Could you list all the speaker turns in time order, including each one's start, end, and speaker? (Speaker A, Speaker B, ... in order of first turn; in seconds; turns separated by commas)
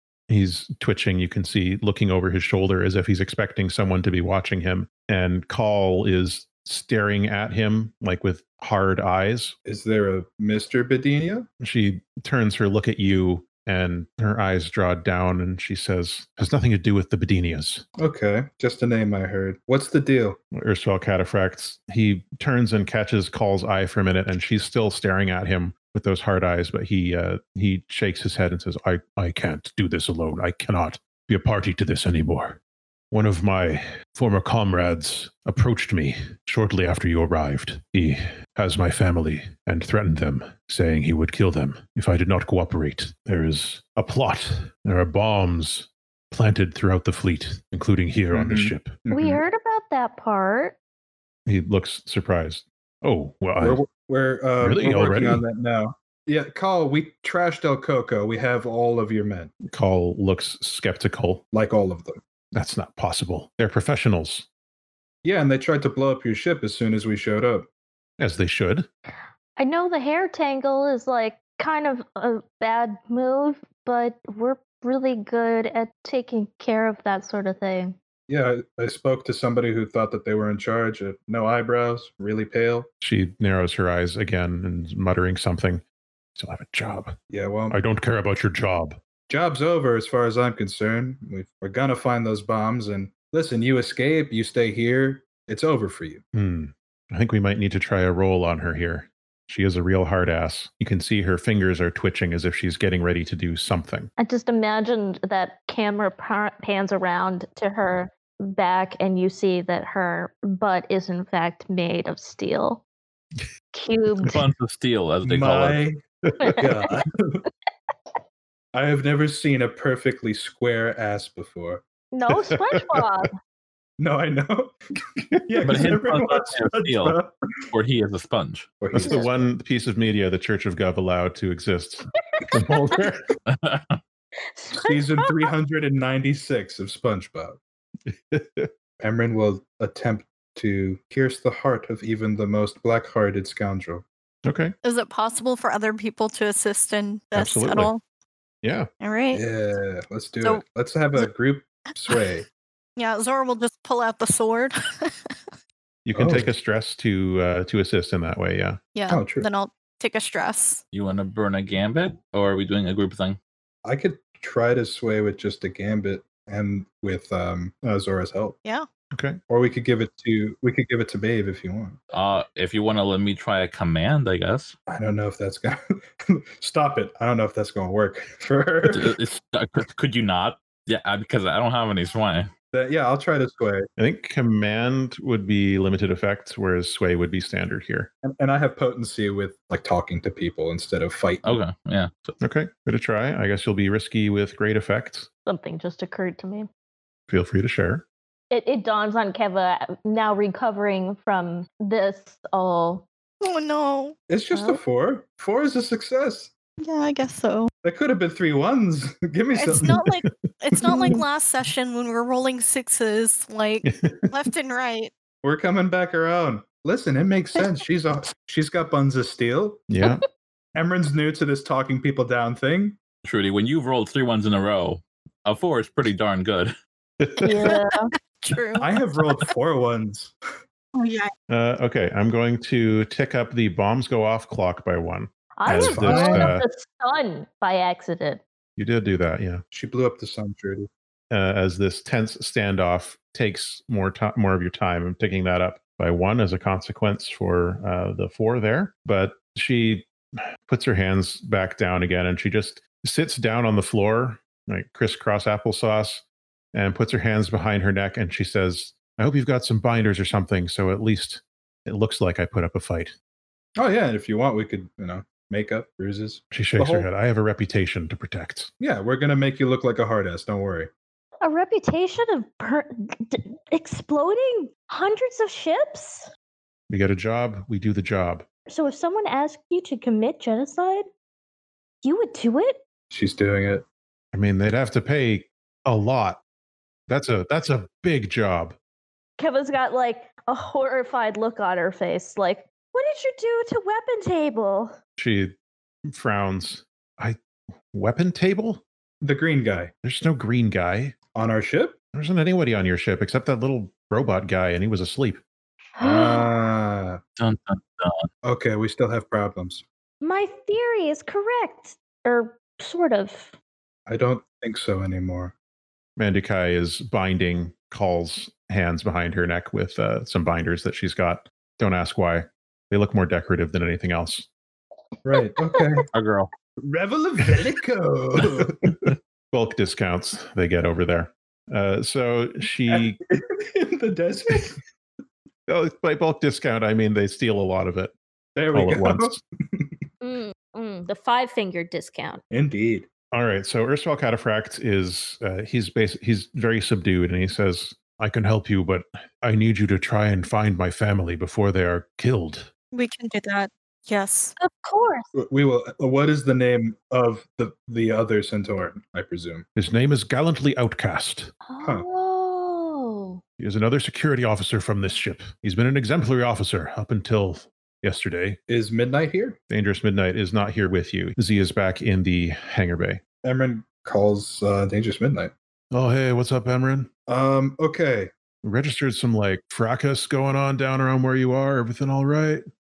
Speaker A: 0.3-9.6, Speaker B: 9.6-11.5, Speaker A: 11.6-17.8, Speaker B: 18.0-20.4, Speaker A: 20.5-32.6, Speaker A: 33.1-49.0, Speaker B: 48.3-49.4, Speaker C: 49.1-50.8, Speaker A: 51.5-53.8, Speaker B: 53.6-59.5, Speaker A: 54.6-55.4, Speaker A: 59.6-61.4, Speaker B: 61.5-62.2, Speaker A: 62.5-64.5, Speaker B: 65.2-67.7, Speaker A: 68.2-68.9, Speaker C: 69.6-77.9, Speaker B: 78.3-82.9, Speaker A: 83.0-85.8, Speaker A: 86.3-87.2, Speaker B: 87.3-87.8, Speaker A: 87.7-89.0, Speaker B: 89.3-96.2, Speaker A: 96.3-104.1, Speaker C: 104.2-112.8, Speaker C: 113.7-114.4, Speaker D: 114.2-115.8, Speaker B: 115.2-116.0, Speaker A: 116.3-116.6, Speaker C: 116.4-116.8, Speaker B: 116.5-117.4, Speaker B: 118.7-121.8, Speaker C: 122.1-123.3, Speaker A: 122.3-123.0, Speaker B: 124.0-124.8, Speaker A: 125.4-125.8, Speaker B: 125.5-127.7, Speaker D: 125.6-127.2, Speaker D: 127.7-128.8, Speaker B: 128.8-129.4, Speaker A: 128.9-133.3, Speaker C: 129.0-129.3, Speaker D: 133.5-134.0, Speaker C: 134.6-135.4, Speaker B: 134.7-137.6, Speaker A: 138.1-138.7, Speaker B: 139.0-144.0, Speaker A: 144.4-144.7, Speaker E: 144.8-148.0, Speaker A: 147.3-147.9, Speaker A: 148.6-148.9, Speaker E: 149.0-149.4, Speaker B: 149.3-152.4, Speaker E: 153.0-155.3, Speaker A: 156.0-158.8, Speaker B: 156.1-156.5, Speaker E: 158.9-160.8, Speaker B: 159.1-159.5, Speaker D: 160.9-163.4, Speaker B: 163.8-168.6, Speaker A: 169.1-169.4, Speaker B: 169.5-172.0, Speaker D: 172.1-174.8, Speaker B: 174.9-179.1, Speaker D: 178.8-182.5, Speaker B: 182.7-183.9, Speaker A: 184.0-188.1, Speaker B: 188.2-191.6, Speaker D: 191.4-192.3, Speaker A: 192.4-195.3, Speaker C: 195.4-196.7, Speaker A: 197.3-198.0, Speaker C: 198.5-203.0, Speaker E: 203.4-204.1, Speaker B: 204.3-206.5, Speaker C: 204.5-204.8, Speaker E: 206.8-207.7, Speaker B: 207.8-210.2, Speaker E: 209.5-215.1, Speaker B: 210.7-211.2, Speaker A: 213.8-214.3, Speaker B: 215.4-219.8, Speaker A: 219.9-220.2, Speaker B: 220.7-223.0, Speaker D: 223.2-226.7, Speaker A: 227.2-227.7, Speaker C: 227.4-228.1, Speaker E: 228.3-229.5, Speaker B: 228.8-230.3, Speaker E: 230.9-231.3, Speaker A: 231.5-236.6, Speaker C: 235.6-238.4, Speaker B: 235.8-236.5, Speaker A: 238.8-239.6, Speaker B: 239.7-240.9, Speaker A: 241.3-263.1, Speaker B: 263.8-267.1, Speaker A: 266.5-268.7, Speaker B: 268.8-270.9, Speaker C: 271.4-276.3, Speaker A: 276.9-278.4, Speaker C: 278.7-281.1, Speaker C: 282.0-282.8, Speaker B: 283.1-283.8, Speaker A: 284.3-286.4, Speaker A: 287.1-288.8, Speaker C: 289.4-294.9, Speaker A: 295.2-295.5, Speaker A: 296.1-297.4, Speaker A: 297.9-298.8, Speaker B: 299.2-299.9, Speaker A: 300.0-301.1, Speaker B: 301.3-302.0, Speaker A: 302.1-305.4, Speaker C: 306.0-306.5, Speaker B: 306.0-307.2, Speaker D: 307.4-308.3, Speaker B: 308.4-309.8, Speaker C: 310.2-313.5, Speaker B: 314.1-315.5, Speaker A: 316.2-324.5, Speaker B: 325.2-326.0, Speaker D: 326.1-326.5, Speaker B: 326.8-328.9, Speaker A: 329.1-333.2, Speaker B: 332.9-334.8, Speaker A: 335.7-338.1, Speaker B: 338.5-339.9, Speaker A: 338.7-339.4, Speaker C: 340.2-342.4, Speaker B: 342.5-343.1, Speaker A: 343.3-352.7, Speaker E: 352.9-354.5, Speaker C: 354.6-355.2, Speaker B: 355.4-359.6, Speaker A: 359.8-361.5, Speaker C: 361.6-363.4, Speaker A: 363.6-368.6, Speaker B: 368.7-369.6, Speaker A: 369.7-373.2, Speaker B: 373.4-375.5, Speaker A: 375.9-377.1, Speaker B: 377.3-378.3, Speaker A: 378.6-382.6